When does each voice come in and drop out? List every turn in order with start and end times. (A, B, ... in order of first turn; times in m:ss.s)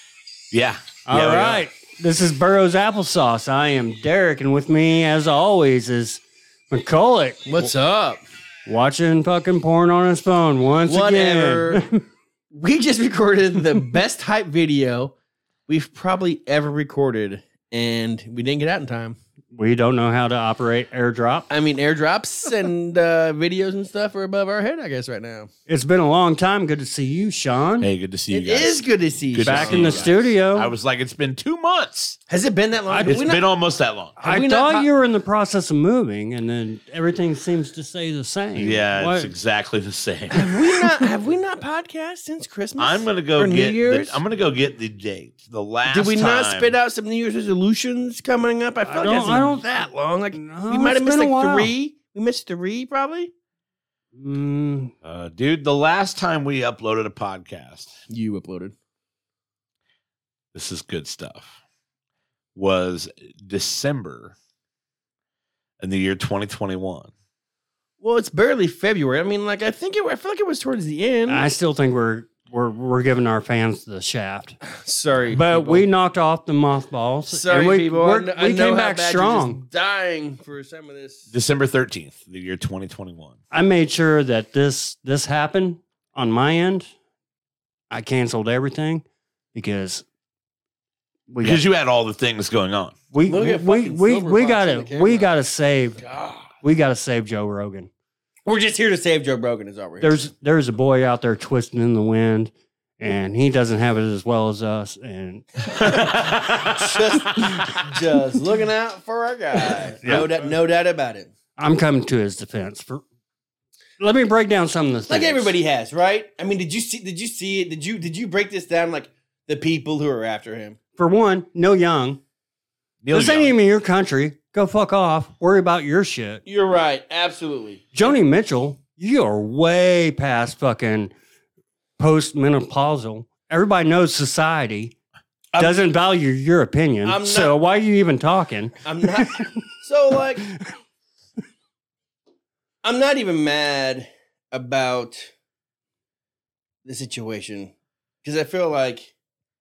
0:00.5-0:01.6 A
0:01.1-0:07.7 B
0:07.5-0:08.2 C
0:08.6-0:12.0 B
0:10.9-0:11.9 C
0:12.5-0:15.1 C
0:15.7-0:19.2 C
0:19.5-0:21.5 B
0:21.5-0:25.5 C
0:25.7-0:27.9 B
0:27.8-0:32.2 A
0:28.3-0:30.1 C
0:29.4-0:30.7 B
0:32.3-0:33.4 C
0:32.9-0:33.2 B
0:33.0-0:34.2 A
0:34.2-0:34.9 C
0:34.2-0:39.3 B
0:38.6-0:40.9 A
0:40.3-0:44.2 C
0:42.8-0:46.7 A
0:45.9-0:53.3 C
0:48.8-0:49.6 B
0:50.3-0:51.7 B
0:54.1-0:54.9 B
0:55.0-0:57.9 A
0:58.1-0:58.7 C
1:00.5-1:01.6 A
1:02.5-1:04.3 A
1:05.8-1:07.1 A
1:08.0-1:11.4 C
1:11.3-1:14.6 B
1:14.7-1:15.8 C
1:15.3-1:19.6 B
1:17.3-1:21.3 C
1:21.3-1:23.4 A
1:23.5-1:26.9 B
1:27.9-1:30.0 B
1:31.3-1:31.6 B
1:31.4-1:32.9 A
1:33.1-1:36.0 B
1:33.2-1:35.3 C
1:36.0-1:36.5 C
1:36.6-1:37.9 B
1:38.4-1:40.2 C
1:40.0-1:47.8 B
1:45.9-1:51.3 C
1:45.9-1:46.7 A
1:50.0-1:50.3 B
1:51.6-1:53.0 B
1:54.0-1:55.5 B
1:55.1-2:00.8 C
2:01.0-2:02.2 B
2:03.0-2:03.5 A
2:03.1-2:06.4 B
2:06.4-2:08.1 C
2:07.9-2:11.1 B
2:12.0-2:14.9 B
2:15.5-2:15.9 C
2:15.6-2:19.5 B
2:17.0-2:17.6 C
2:18.8-2:20.4 C
2:22.8-2:25.3 C
2:26.8-2:29.1 C